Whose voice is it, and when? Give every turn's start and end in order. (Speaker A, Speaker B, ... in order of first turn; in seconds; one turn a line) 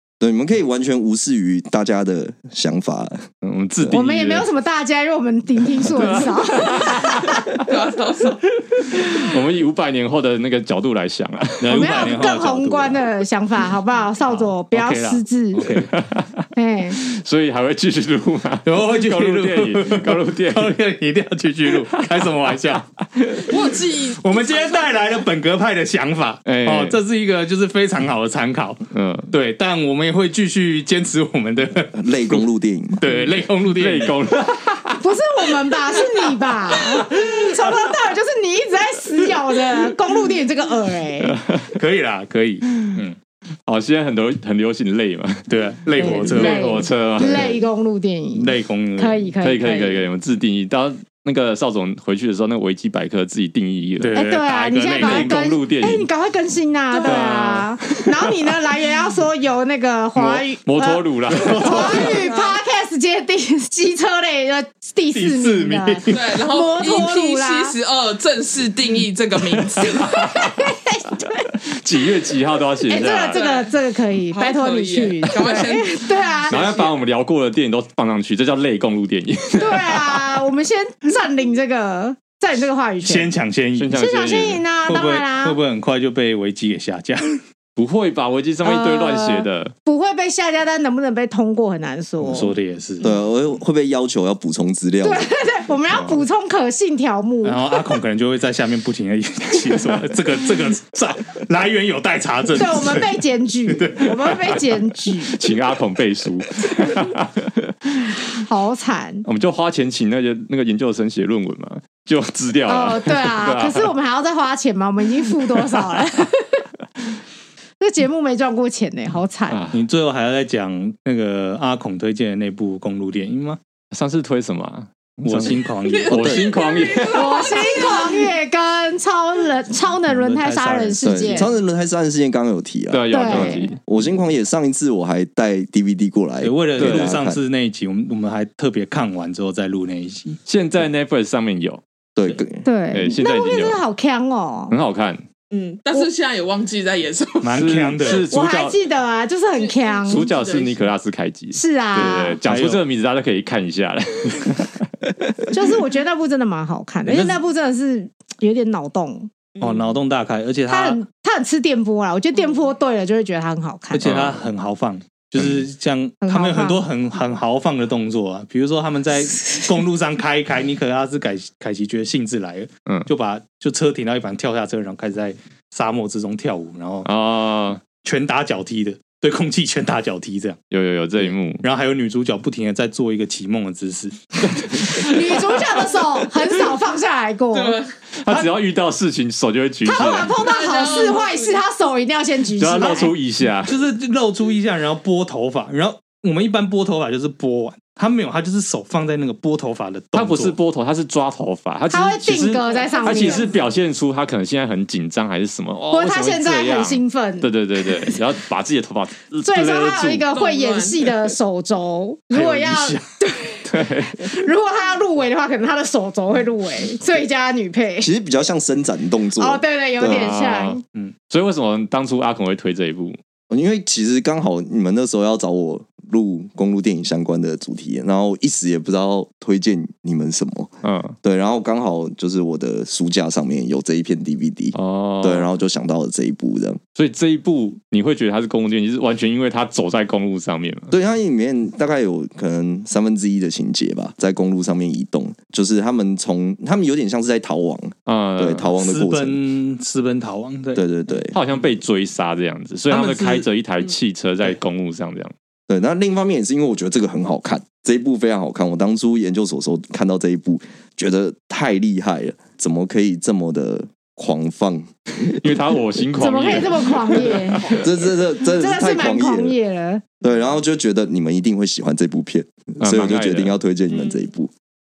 Speaker A: 0.2-3.2
Speaker B: 3.4-4.5
Speaker C: 3.9-7.6
Speaker B: 5.8-7.7
Speaker D: 7.6-8.4
Speaker B: 8.5-12.2
Speaker E: 11.6-13.1
Speaker C: 11.7-15.7
Speaker E: 14.2-15.9
Speaker B: 15.8-20.8
Speaker C: 16.6-17.0
Speaker E: 18.6-32.4
Speaker B: 21.7-22.4
Speaker D: 23.5-25.2
Speaker B: 26.5-27.0
Speaker B: 28.9-29.3
Speaker A: 31.9-33.0
Speaker E: 33.0-34.2
Speaker B: 33.1-35.0
Speaker C: 35.0-41.4
Speaker B: 41.2-41.8
Speaker E: 41.8-43.2
Speaker B: 43.7-47.6
Speaker E: 45.5-46.8
Speaker C: 46.0-50.1
Speaker A: 47.2-47.5
Speaker E: 48.3-49.3
Speaker B: 49.4-54.2
Speaker E: 54.0-55.5
Speaker C: 54.1-61.0
Speaker B: 54.9-56.1
Speaker B: 56.9-58.0
Speaker E: 57.0-58.0
Speaker B: 60.2-62.2
Speaker E: 61.3-62.2
Speaker C: 61.6-67.8
Speaker D: 61.7-62.6
Speaker E: 65.1-66.4
Speaker D: 66.1-70.1
Speaker B: 69.6-70.5
Speaker C: 69.9-71.5
Speaker B: 71.3-73.5
Speaker C: 72.9-76.6
Speaker D: 73.3-73.7
Speaker D: 74.3-77.0
Speaker B: 76.5-80.4
Speaker C: 79.6-83.3
Speaker E: 83.0-84.3
Speaker B: 83.8-84.6
Speaker C: 83.9-85.6
Speaker E: 84.8-87.4
Speaker B: 87.8-89.7
Speaker C: 88.6-92.5
Speaker E: 92.2-93.1
Speaker A: 93.0-95.3
Speaker C: 95.0-97.8
Speaker E: 95.9-96.2
Speaker E: 97.4-104.5
Speaker C: 102.5-105.4
Speaker B: 105.2-108.2
Speaker C: 108.2-109.3
Speaker B: 109.2-113.9
Speaker C: 112.7-116.7
Speaker C: 117.8-119.6
Speaker B: 119.5-119.9
Speaker E: 119.7-123.6
Speaker B: 123.9-127.6
Speaker E: 125.2-126.5
Speaker D: 125.8-128.3
Speaker C: 127.1-131.5
Speaker E: 130.1-131.5
Speaker A: 131.0-137.4
Speaker B: 132.9-133.8
Speaker C: 133.1-133.7
Speaker E: 136.4-140.4
Speaker B: 136.8-137.2
Speaker B: 140.5-141.8
Speaker A: 142.2-142.7
Speaker C: 142.6-144.8
Speaker B: 142.9-143.8
Speaker B: 144.7-145.2
Speaker D: 145.5-147.6
Speaker E: 147.4-148.2
Speaker B: 147.5-148.8
Speaker C: 148.1-150.3
Speaker D: 149.6-150.9
Speaker B: 150.1-155.7
Speaker C: 151.5-152.4
Speaker E: 152.4-152.8
Speaker C: 155.5-159.3
Speaker E: 157.1-157.4
Speaker D: 159.6-159.9
Speaker E: 159.6-161.0
Speaker C: 160.7-164.1
Speaker E: 163.9-177.1
Speaker B: 164.0-164.4
Speaker C: 166.2-166.9
Speaker B: 177.1-177.8
Speaker E: 178.0-180.6
Speaker B: 180.7-181.6
Speaker E: 181.2-184.9
Speaker B: 184.5-185.2
Speaker C: 184.9-187.8
Speaker D: 187.5-187.9
Speaker B: 188.2-190.4
Speaker C: 189.8-193.1
Speaker D: 190.0-191.6
Speaker B: 192.6-193.8
Speaker E: 192.8-200.6
Speaker B: 200.1-210.3
Speaker C: 201.9-203.6
Speaker D: 202.7-203.5
Speaker C: 205.9-208.2
Speaker C: 209.4-218.1
Speaker D: 210.3-211.1
Speaker E: 212.3-213.2
Speaker B: 213.7-214.2
Speaker A: 218.0-220.3
Speaker C: 219.4-220.8
Speaker B: 220.0-223.2
Speaker A: 223.5-236.8
Speaker B: 230.8-231.2
Speaker B: 234.7-235.5
Speaker B: 236.9-240.9
Speaker A: 240.9-249.4
Speaker B: 248.1-248.7
Speaker E: 248.8-250.8
Speaker A: 250.8-251.4
Speaker B: 251.3-255.3
Speaker E: 252.9-253.5
Speaker A: 255.7-265.6
Speaker B: 265.3-267.8
Speaker C: 266.1-267.8
Speaker A: 267.7-269.6
Speaker C: 268.5-270.1
Speaker A: 270.2-274.5
Speaker B: 272.8-273.6
Speaker D: 273.9-274.3